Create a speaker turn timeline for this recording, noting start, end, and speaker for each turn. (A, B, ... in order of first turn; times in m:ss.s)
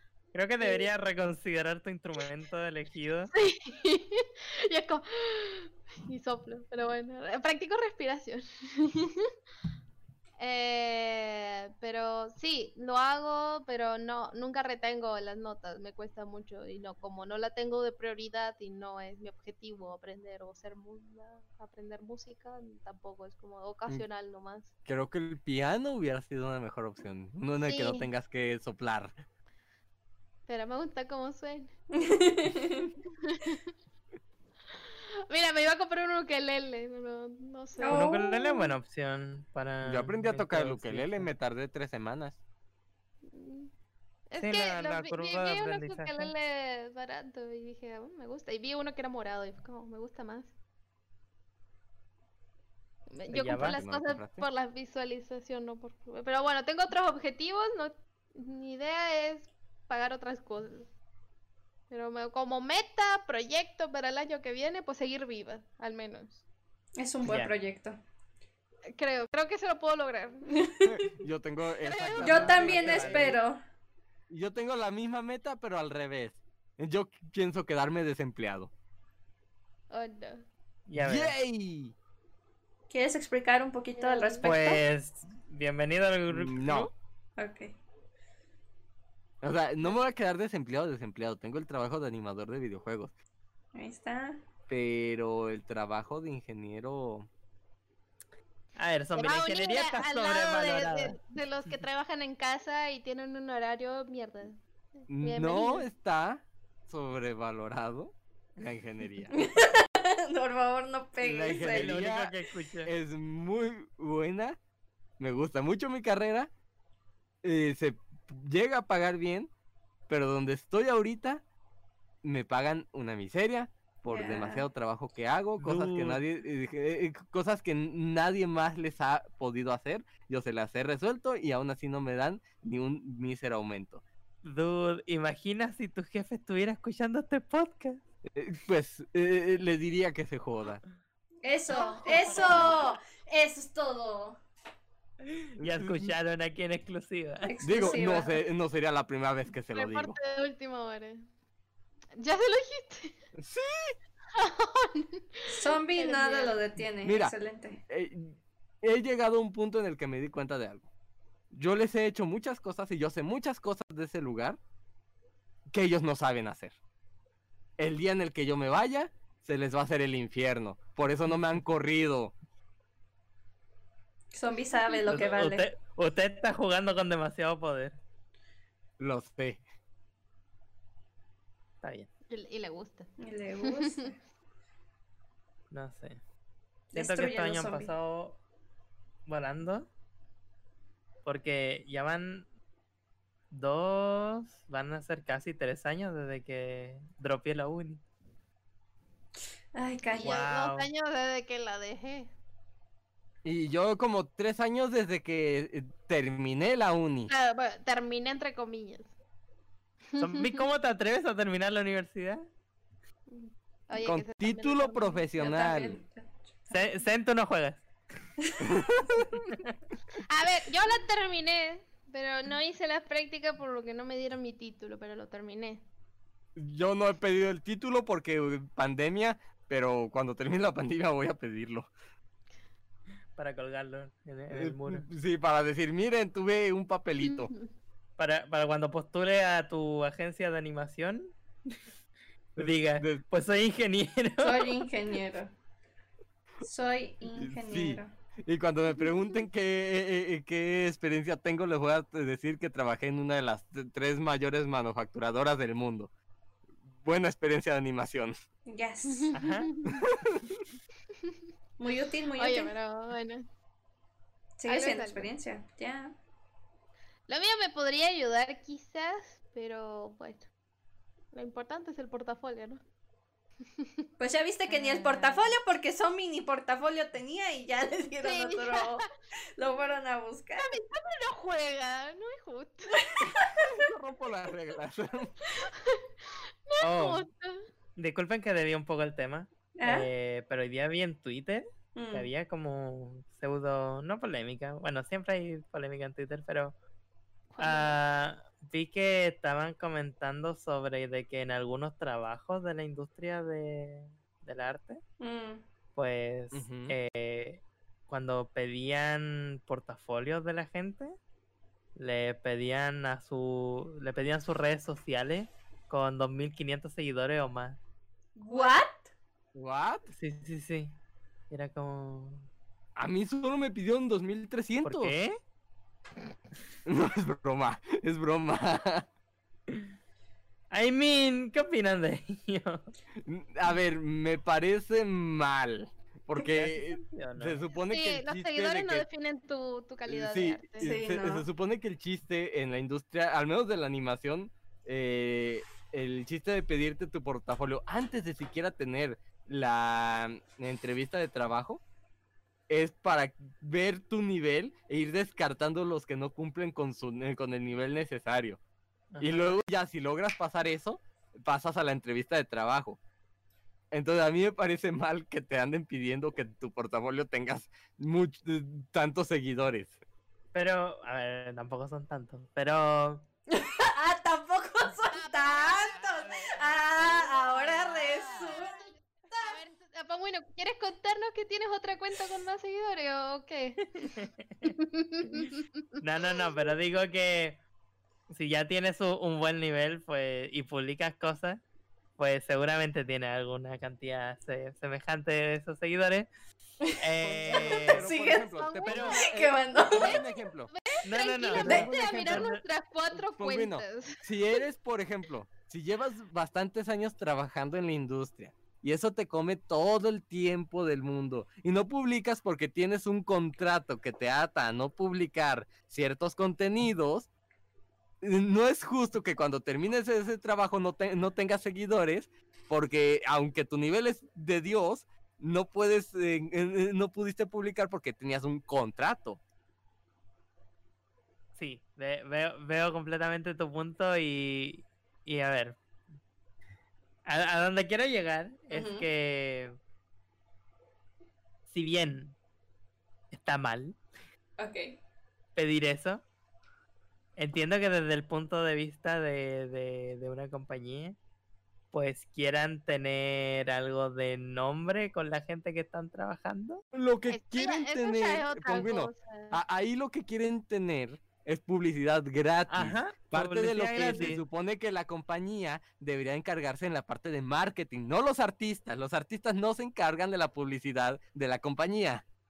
0:00.3-0:03.3 A
0:00.6-0:00.9 B
0:03.3-0:09.3 B
0:10.4-0:24.7 B
0:24.9-0:29.2 C
0:27.6-0:28.1 B
0:30.5-0:31.7 B
0:31.9-0:33.0 D
0:33.2-0:33.6 B
0:35.3-0:38.1 B
0:37.8-0:38.7 D
0:37.9-0:41.3 A
0:39.8-0:42.4 C
0:43.2-0:43.7 B
0:44.3-0:50.5 B
0:44.4-0:46.3 A
0:53.1-1:00.9 B
0:53.3-0:53.8 A
0:53.5-0:54.5 C
1:01.9-1:06.4 B
1:07.0-1:08.0 D
1:07.2-1:07.5 A
1:08.9-1:10.5 B
1:10.6-1:11.0 D
1:10.9-1:13.4 C
1:11.8-1:12.6 B
1:12.2-1:13.4 A
1:12.2-1:13.6 D
1:14.3-1:18.7 C
1:19.9-1:20.4 B
1:20.9-1:21.3 A
1:21.0-1:22.0 C
1:22.9-1:24.8 D
1:24.0-1:24.5 B
1:24.4-1:26.9 A
1:26.3-1:26.9 C
1:27.4-1:27.7 D
1:29.4-1:33.1 C
1:33.8-1:34.4 D
1:34.7-1:37.3 C
1:38.8-1:41.2 A
1:39.1-1:45.9 B
1:45.1-1:49.3 C
1:49.3-1:52.0 D
1:51.2-1:52.9 A
1:51.3-1:54.6 C
1:55.2-1:56.5 C
1:57.4-1:59.5 C
2:00.1-2:01.4 C
2:02.2-2:14.0 C
2:04.1-2:04.7 D
2:05.6-2:06.2 A
2:14.4-2:18.0 A
2:18.3-2:20.8 C
2:21.4-2:24.4 D
2:21.8-2:22.2 B
2:25.6-2:26.1 C
2:25.6-2:28.0 A
2:27.4-2:28.4 D
2:27.6-2:30.2 C
2:29.7-2:31.2 B
2:32.2-2:33.2 B
2:33.4-2:34.0 C
2:34.3-2:36.6 B
2:35.5-2:37.8 D
2:37.0-2:37.4 C
2:37.9-2:40.9 C
2:41.5-2:44.6 C
2:45.7-2:46.8 C
2:47.8-2:52.3 C
2:54.3-2:55.7 D
2:55.1-2:58.0 A
2:59.0-2:59.6 C
3:01.8-3:02.1 A
3:02.3-3:03.1 B
3:03.2-3:04.2 D
3:03.6-3:04.1 B
3:05.7-3:06.2 A
3:06.9-3:07.9 D
3:06.9-3:08.4 A
3:09.3-3:09.9 A
3:11.2-3:12.5 A
3:13.5-3:18.0 A
3:19.7-3:20.4 D
3:20.1-3:22.3 B
3:20.2-3:20.9 A
3:23.4-3:27.3 C
3:27.3-3:29.1 B
3:30.1-3:30.6 B
3:30.2-3:32.5 A
3:33.3-3:35.3 B
3:34.0-3:36.0 C
3:35.4-3:36.9 D
3:36.7-3:37.8 A
3:38.6-3:39.3 C
3:40.2-3:45.8 B
3:46.6-3:51.9 C
3:53.4-3:55.1 A
3:54.5-3:57.5 C
3:57.3-3:57.6 B
3:58.2-4:01.3 A
4:02.6-4:03.2 C
4:02.6-4:04.8 A
4:04.4-4:05.5 D
4:06.6-4:08.1 D
4:07.4-4:16.1 C
4:16.9-4:18.4 C
4:18.7-4:19.3 D
4:19.1-4:20.0 B
4:19.3-4:19.7 A
4:19.9-4:20.6 C
4:21.8-4:22.7 D
4:22.4-4:23.5 B
4:24.6-4:26.2 D
4:24.7-4:25.3 B
4:27.3-4:30.5 B
4:31.3-4:32.8 B
4:34.2-4:40.8 D
4:34.7-4:35.6 B
4:38.2-4:39.0 B
4:40.6-4:43.2 B
4:43.0-4:43.5 D
4:43.6-4:45.3 C
4:45.6-4:46.0 B
4:46.7-4:47.6 B
4:46.8-4:47.2 A
4:48.0-4:56.7 A
4:49.8-4:50.1 D
4:52.0-4:52.3 D
4:57.5-4:58.0 B
4:57.6-5:05.0 A
5:05.2-5:05.6 D
5:06.0-5:11.2 A
5:06.5-5:07.0 C
5:12.0-5:17.8 A
5:18.4-5:19.1 D
5:18.5-5:18.8 B
5:19.5-5:20.1 C
5:20.1-5:21.0 A
5:21.5-5:22.5 A
5:23.0-5:25.2 C
5:24.8-5:25.4 A
5:26.9-5:29.1 C
5:30.7-5:32.8 A
5:33.2-5:39.1 C
5:36.4-5:37.6 A
5:37.9-5:40.9 B
5:40.1-5:51.8 C
5:40.8-5:41.5 D
5:52.7-5:58.6 C
5:59.1-5:59.6 A
5:59.2-6:03.0 C
6:03.9-6:10.0 C
6:10.5-6:13.3 A
6:13.5-6:19.6 D
6:15.2-6:16.0 B
6:17.7-6:18.8 B
6:19.4-6:25.8 B
6:24.0-6:24.7 A
6:26.0-6:27.6 A
6:28.3-6:31.6 A
6:32.2-6:36.3 A
6:37.0-6:38.0 A
6:37.2-6:40.7 C
6:37.5-6:40.2 D
6:38.5-6:44.6 B
6:38.9-6:39.2 A
6:41.0-6:42.6 A
6:41.6-6:41.9 D
6:41.6-6:42.5 C
6:43.2-6:57.3 C
6:58.2-7:09.4 C
7:11.6-7:15.8 A
7:17.3-7:19.8 A
7:18.7-7:19.1 D
7:21.7-7:22.4 A
7:23.3-7:24.0 A
7:24.6-7:25.0 D
7:25.6-7:26.2 A
7:27.4-7:31.2 A
7:31.9-7:36.8 A
7:36.9-7:52.2 C
7:37.3-7:39.6 B
7:42.7-7:44.4 A